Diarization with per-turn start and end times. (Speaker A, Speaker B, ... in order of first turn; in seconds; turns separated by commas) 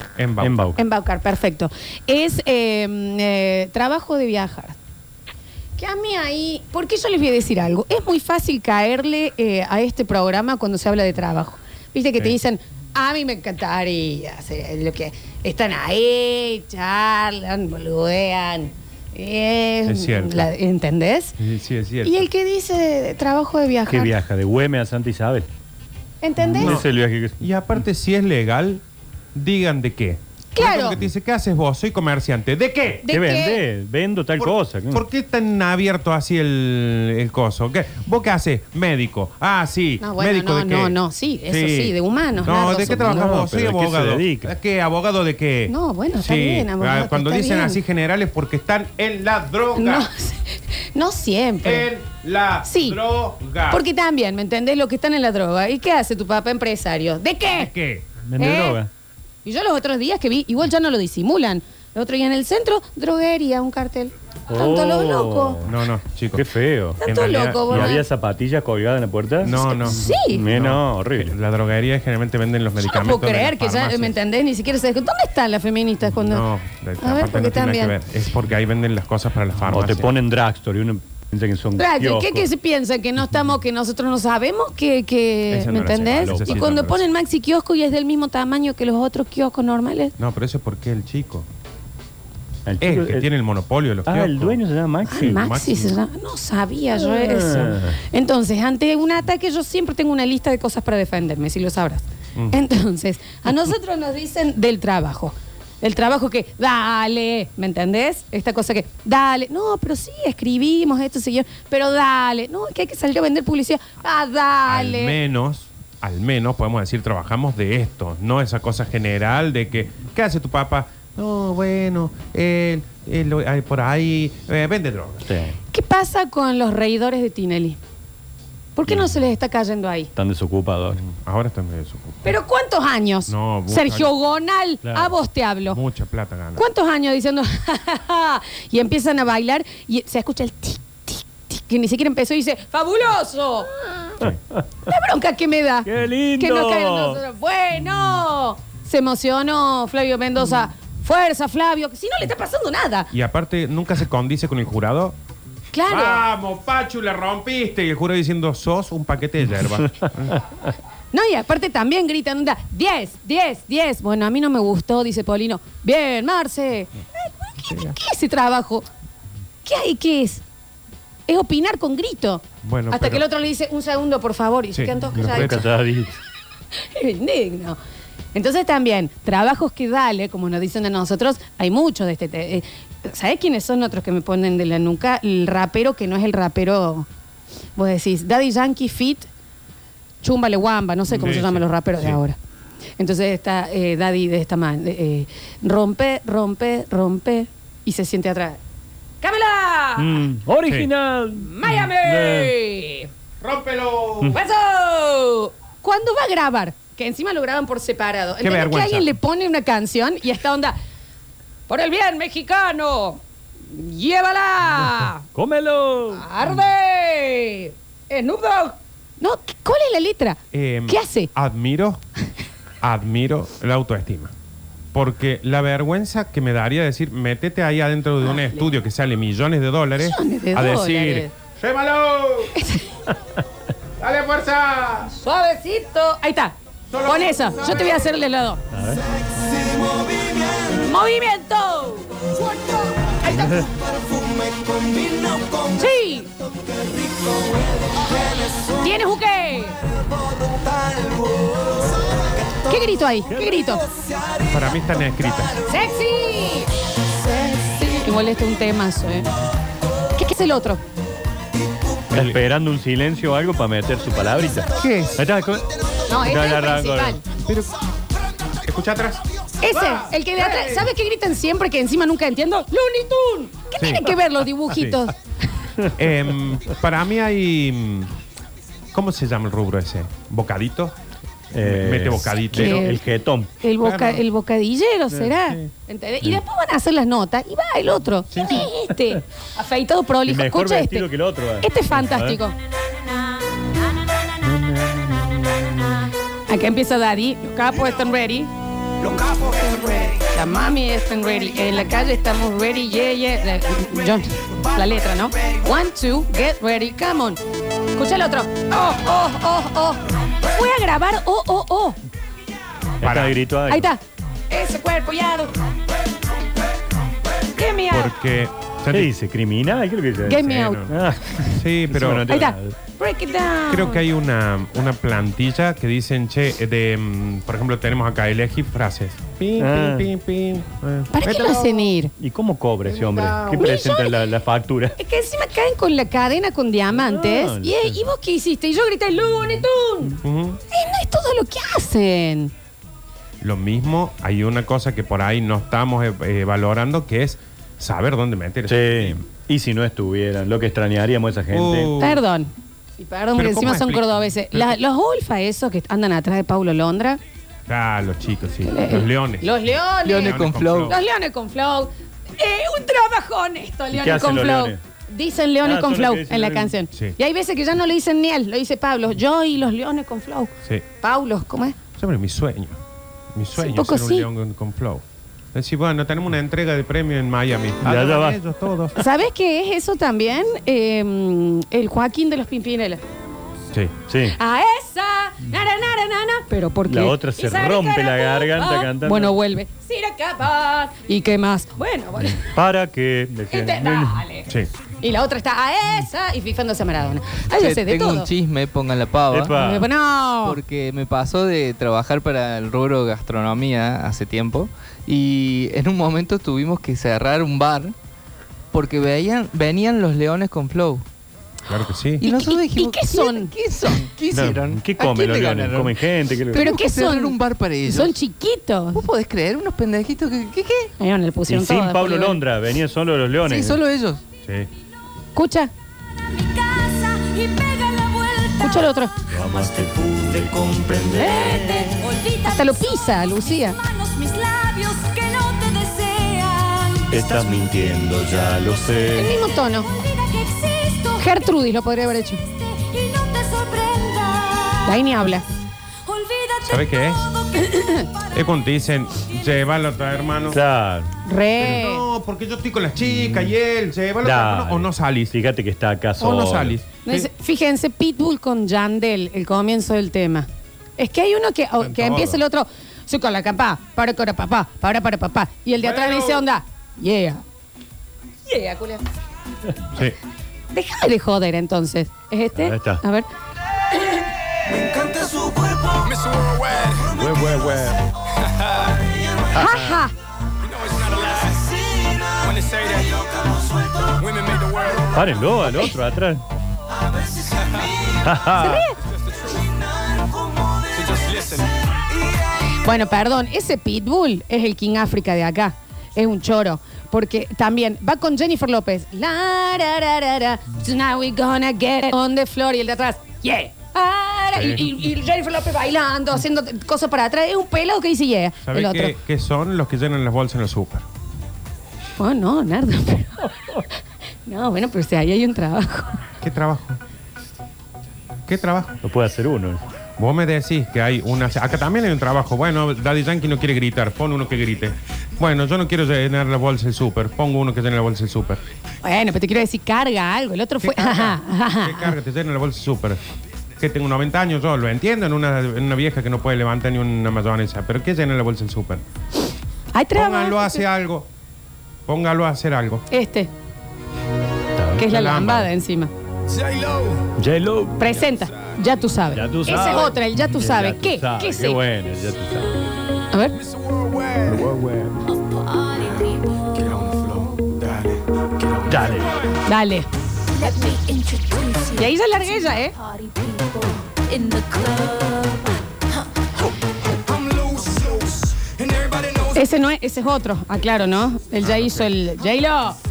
Speaker A: 0.2-0.7, Speaker B: 0.4-0.8, Speaker C: 0.7-4.8, Speaker C: 5.8-21.4, Speaker A: 19.9-20.5, Speaker A: 21.4-22.3, Speaker C: 22.0-24.1, Speaker B: 23.9-25.5, Speaker C: 26.2-26.8, Speaker B: 26.4-27.4, Speaker A: 26.6-26.9, Speaker A: 27.4-28.8, Speaker A: 29.3-33.1, Speaker C: 30.5-31.0, Speaker C: 33.0-33.6, Speaker B: 33.1-35.0, Speaker A: 34.4-50.1, Speaker C: 40.0-43.3, Speaker B: 42.9-44.5, Speaker C: 45.7-47.8, Speaker C: 49.7-51.9, Speaker A: 51.6-53.8, Speaker C: 52.6-53.0, Speaker C: 53.7-57.7, Speaker A: 57.5-58.1, Speaker B: 58.2-58.9, Speaker C: 58.4-58.8, Speaker C: 59.4-65.6, Speaker B: 64.5-65.8, Speaker A: 65.6-66.5, Speaker B: 66.3-67.0, Speaker C: 67.0-68.0, Speaker A: 67.0-68.0, Speaker B: 67.7-69.6, Speaker A: 69.4-74.2, Speaker C: 69.5-70.4, Speaker B: 70.1-71.3, Speaker C: 72.8-76.5, Speaker A: 76.2-80.1, Speaker C: 77.0-78.0, Speaker B: 79.7-82.5, Speaker C: 81.7-90.1, Speaker A: 85.5-87.0, Speaker B: 86.2-86.7, Speaker A: 90.2-91.5, Speaker B: 92.7-93.3, Speaker A: 92.8-94.6, Speaker B: 94.0-95.5, Speaker C: 95.1-115.2, Speaker A: 95.2-96.0, Speaker B: 97.0-98.0, Speaker A: 114.7-125.2, Speaker B: 125.2-125.6, Speaker C: 125.7-127.8, Speaker C: 128.8-130.1, Speaker B: 130.2-131.0, Speaker A: 130.9-132.3, Speaker C: 132.2-135.8, Speaker A: 133.3-134.1, Speaker B: 134.8-135.1, Speaker A: 135.7-136.6, Speaker C: 136.6-144.1, Speaker B: 144.2-144.6, Speaker C: 144.8-153.1, Speaker B: 145.8-147.2, Speaker A: 153.1-155.2, Speaker C: 155.7-156.2, Speaker A: 155.9-160.4, Speaker C: 161.1-168.9, Speaker A: 167.7-167.9, Speaker C: 169.6-170.4, Speaker C: 171.3-175.6, Speaker A: 172.6-173.2, Speaker A: 174.7-175.7, Speaker B: 175.2-176.1, Speaker C: 176.8-177.8, Speaker C: 178.3-187.1, Speaker C: 187.8-189.3, Speaker C: 190.2-192.4, Speaker A: 191.2-192.2, Speaker C: 193.0-198.6, Speaker C: 199.2-200.2, Speaker B: 200.0-202.5, Speaker C: 201.4-203.1, Speaker A: 203.4-204.4, Speaker C: 204.3-210.8, Speaker A: 208.4-209.1, Speaker C: 211.7-215.2, Speaker B: 215.3-216.2, Speaker C: 216.1-221.3, Speaker A: 220.5-222.0, Speaker A: 222.8-224.3, Speaker A: 224.9-232.6, Speaker C: 228.3-228.6, Speaker C: 230.0-231.3, Speaker C: 232.5-233.0, Speaker A: 234.0-235.1, Speaker C: 235.1-238.6, Speaker A: 236.9-237.8, Speaker B: 238.7-239.0, Speaker C: 240.6-243.6, Speaker B: 243.3-243.7, Speaker C: 245.6-246.3, Speaker C: 248.6-249.8, Speaker C: 252.5-253.8, Speaker B: 253.3-253.7, Speaker A: 254.4-255.6, Speaker C: 255.6-259.3, Speaker C: 260.1-260.8, Speaker A: 262.1-262.4, Speaker B: 262.1-267.2, Speaker A: 264.7-265.2, Speaker C: 266.1-267.2, Speaker A: 267.4-267.8, Speaker A: 268.6-270.9, Speaker C: 269.6-275.1, Speaker A: 273.8-274.2, Speaker A: 274.7-275.0, Speaker A: 275.9-278.1, Speaker A: 278.9-280.9, Speaker B: 281.5-283.5, Speaker A: 281.6-283.0, Speaker C: 282.5-283.0, Speaker C: 283.6-291.1, Speaker A: 283.8-284.2, Speaker A: 288.3-288.6, Speaker B: 290.2-292.4, Speaker C: 291.6-292.6, Speaker B: 294.4-295.7, Speaker C: 296.5-298.5, Speaker C: 299.1-307.4, Speaker C: 307.9-312.0, Speaker B: 313.0-313.9, Speaker A: 313.0-313.4, Speaker C: 313.7-315.6, Speaker C: 317.5-318.1, Speaker A: 317.9-319.1, Speaker B: 318.9-322.8, Speaker C: 320.2-320.9, Speaker A: 320.3-322.3, Speaker C: 322.3-324.0, Speaker A: 323.7-331.9, Speaker B: 329.6-330.1, Speaker C: 331.1-332.1, Speaker B: 332.2-334.9, Speaker A: 332.8-333.7, Speaker C: 333.5-334.2, Speaker C: 335.0-340.2, Speaker B: 336.9-338.0, Speaker A: 340.2-340.6, Speaker C: 340.7-342.5, Speaker A: 343.4-349.2, Speaker B: 348.7-351.9, Speaker A: 351.5-352.2, Speaker C: 352.0-357.2, Speaker A: 353.3-354.1, Speaker A: 357.7-361.0, Speaker C: 358.6-371.8, Speaker D: 360.0-360.9, Speaker B: 363.9-364.8, Speaker B: 365.6-366.7, Speaker A: 372.0-372.8, Speaker A: 373.3-379.0, Speaker C: 373.6-374.3, Speaker B: 377.8-378.4, Speaker C: 378.9-383.0, Speaker B: 384.1-384.4, Speaker C: 384.3-392.6, Speaker B: 386.9-389.4, Speaker B: 392.5-394.2, Speaker C: 393.5-394.5, Speaker C: 395.0-398.3, Speaker D: 397.5-399.6, Speaker B: 399.3-399.9, Speaker C: 399.5-400.6, Speaker D: 400.4-407.9, Speaker D: 408.7-411.0, Speaker A: 411.7-412.2, Speaker D: 412.2-418.1, Speaker C: 412.2-414.0, Speaker B: 414.3-416.7, Speaker C: 416.5-419.0, Speaker D: 418.9-420.9, Speaker C: 421.0-422.4, Speaker B: 421.5-423.8, Speaker D: 423.4-424.2, Speaker C: 425.3-425.7, Speaker E: 426.2-428.9, Speaker C: 428.6-429.1, Speaker B: 429.3-431.8, Speaker C: 431.1-433.8, Speaker E: 431.2-441.7, Speaker B: 437.1-439.3, Speaker C: 439.1-439.9, Speaker C: 441.2-442.4, Speaker E: 442.3-445.1, Speaker C: 444.8-445.4, Speaker E: 446.0-448.4, Speaker A: 446.6-447.3, Speaker C: 447.6-448.0, Speaker A: 448.3-450.6, Speaker B: 450.5-451.1, Speaker C: 451.2-452.0, Speaker A: 451.6-455.3, Speaker B: 454.2-456.8, Speaker A: 456.2-457.3, Speaker C: 457.0-467.4, Speaker A: 461.8-462.4, Speaker A: 465.8-466.4, Speaker C: 468.4-469.0, Speaker C: 470.7-473.3, Speaker B: 472.5-473.0, Speaker F: 476.1-477.0, Speaker B: 477.0-478.0, Speaker C: 479.5-480.1, Speaker B: 479.5-480.0, Speaker F: 480.7-481.7, Speaker E: 481.8-482.5, Speaker F: 482.5-483.1, Speaker E: 483.4-484.2, Speaker F: 484.2-485.0, Speaker B: 485.0-486.4, Speaker E: 487.7-488.1, Speaker B: 488.2-488.9, Speaker C: 488.5-489.0, Speaker E: 489.8-491.4, Speaker C: 492.7-509.2, Speaker A: 504.5-504.9, Speaker A: 508.6-511.1, Speaker C: 512.2-513.8, Speaker C: 514.5-516.2, Speaker A: 516.4-517.0, Speaker A: 518.5-519.0, Speaker B: 519.0-519.8, Speaker A: 520.2-528.6, Speaker C: 529.0-532.1, Speaker A: 530.8-533.2, Speaker A: 533.8-539.0, Speaker C: 539.9-540.9, Speaker A: 540.1-541.3, Speaker A: 542.1-543.0, Speaker C: 543.1-543.5, Speaker B: 544.8-545.1, Speaker C: 545.0-546.1, Speaker A: 545.0-545.7, Speaker F: 546.9-547.1, Speaker B: 547.4-548.2, Speaker C: 548.0-551.8, Speaker B: 549.3-552.8, Speaker C: 553.3-553.6, Speaker B: 554.4-555.2, Speaker E: 555.2-557.8, Speaker F: 556.8-558.9, Speaker B: 558.9-559.3, Speaker C: 559.6-560.1, Speaker E: 560.5-566.7, Speaker C: 562.0-563.0, Speaker E: 567.3-568.1, Speaker F: 567.5-568.3, Speaker F: 568.8-569.2, Speaker C: 569.5-573.0, Speaker A: 571.6-572.0